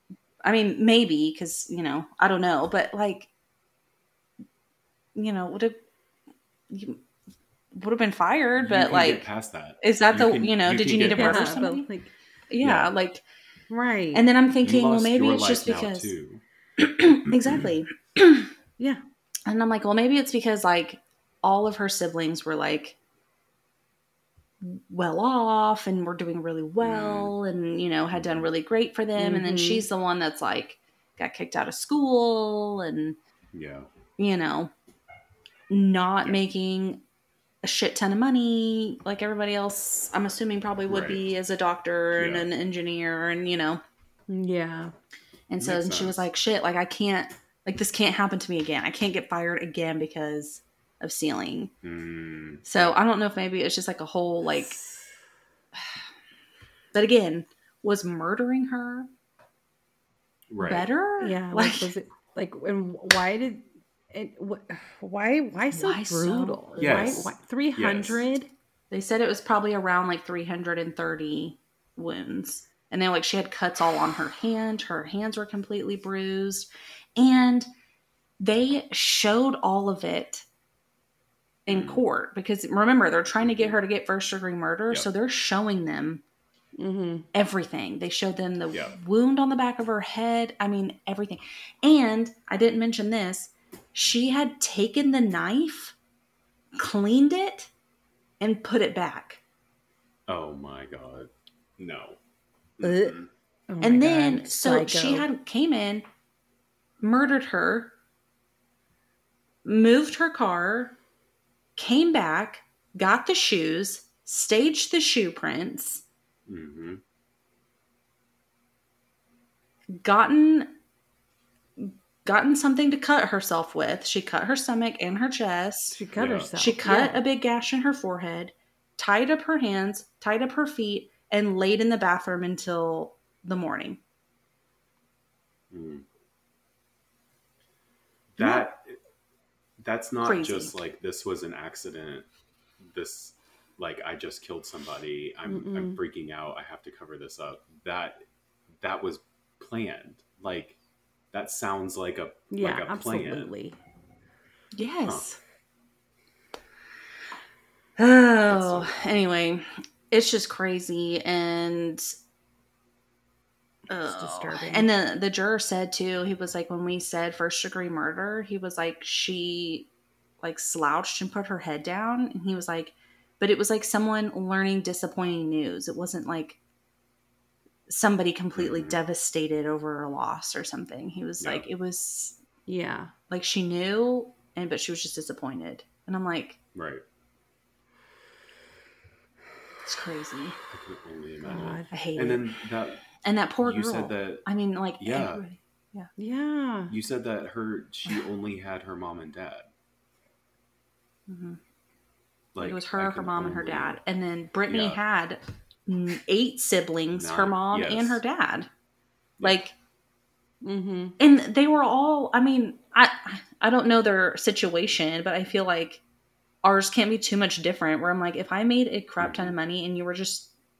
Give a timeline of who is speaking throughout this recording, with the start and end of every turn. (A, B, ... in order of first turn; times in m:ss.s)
0:00.4-0:03.3 A
0:05.1-0:05.8 A
0:06.7-0:07.0 A
0:07.7-0:09.2 A
0:08.6-0:11.6 B
0:09.8-0:11.9 A
0:11.1-0:12.1 C
0:12.5-0:13.2 A
0:12.6-0:12.9 B
0:13.7-0:14.3 C
0:14.1-0:16.1 A
0:14.6-0:16.4 B
0:16.8-0:18.5 A
0:19.5-0:23.0 A
0:24.6-0:33.2 A
0:26.8-0:27.3 B
0:28.1-0:28.5 B
0:29.2-0:29.8 C
0:33.5-0:33.9 B
0:34.2-0:34.7 A
0:35.7-0:37.0 A
0:37.6-0:43.8 A
0:40.9-0:41.2 B
0:42.2-0:42.5 B
0:44.3-0:44.9 C
0:45.5-0:51.7 A
0:45.6-0:46.2 B
0:51.8-0:53.0 B
0:52.6-0:54.8 A
0:56.9-0:59.1 A
1:00.5-1:00.9 B
1:00.6-1:01.9 A
1:01.2-1:08.5 C
1:05.7-1:07.3 A
1:06.8-1:08.2 B
1:08.9-1:17.7 A
1:18.4-1:20.4 A
1:21.6-1:26.2 A
1:21.7-1:22.0 B
1:23.4-1:23.8 B
1:26.8-1:27.2 C
1:27.3-1:36.0 A
1:36.8-1:37.7 A
1:38.4-1:39.4 A
1:40.3-1:42.2 B
1:42.8-1:43.3 B
1:42.8-1:43.1 C
1:43.7-1:45.3 C
1:43.8-1:46.0 A
1:47.0-1:47.9 A
1:49.6-1:51.0 A
1:51.8-1:56.0 A
1:56.5-1:57.0 B
1:59.9-2:00.7 A
2:01.8-2:06.0 A
2:05.9-2:07.2 C
2:06.2-2:06.5 B
2:06.5-2:14.0 A
2:15.7-2:16.0 B
2:18.3-2:19.0 B
2:18.4-2:18.6 A
2:19.8-2:22.3 B
2:20.2-2:20.7 A
2:22.9-2:28.2 B
2:25.4-2:26.0 C
2:28.8-2:30.8 B
2:31.3-2:33.5 B
2:32.5-2:33.8 C
2:34.7-2:35.4 A
2:38.0-2:42.1 A
2:38.5-2:39.0 B
2:43.9-2:49.9 A
2:44.0-2:44.9 C
2:50.4-2:56.6 A
2:57.9-3:02.4 A
2:58.5-2:59.0 B
3:01.4-3:01.6 B
3:02.7-3:03.1 C
3:03.3-3:06.6 A
3:06.7-3:07.0 B
3:09.8-3:10.6 A
3:10.7-3:13.1 B
3:11.5-3:12.0 C
3:11.9-3:12.6 A
3:13.2-3:16.1 A
3:13.6-3:14.4 B
3:15.0-3:15.4 B
3:16.2-3:16.9 C
3:16.9-3:19.7 B
3:21.3-3:21.6 A
3:22.5-3:24.0 B
3:22.6-3:28.7 A
3:24.7-3:25.0 B
3:27.1-3:28.2 B
3:29.4-3:29.7 A
3:30.6-3:31.2 C
3:31.2-3:36.0 A
3:36.6-3:40.5 A
3:39.2-3:39.6 B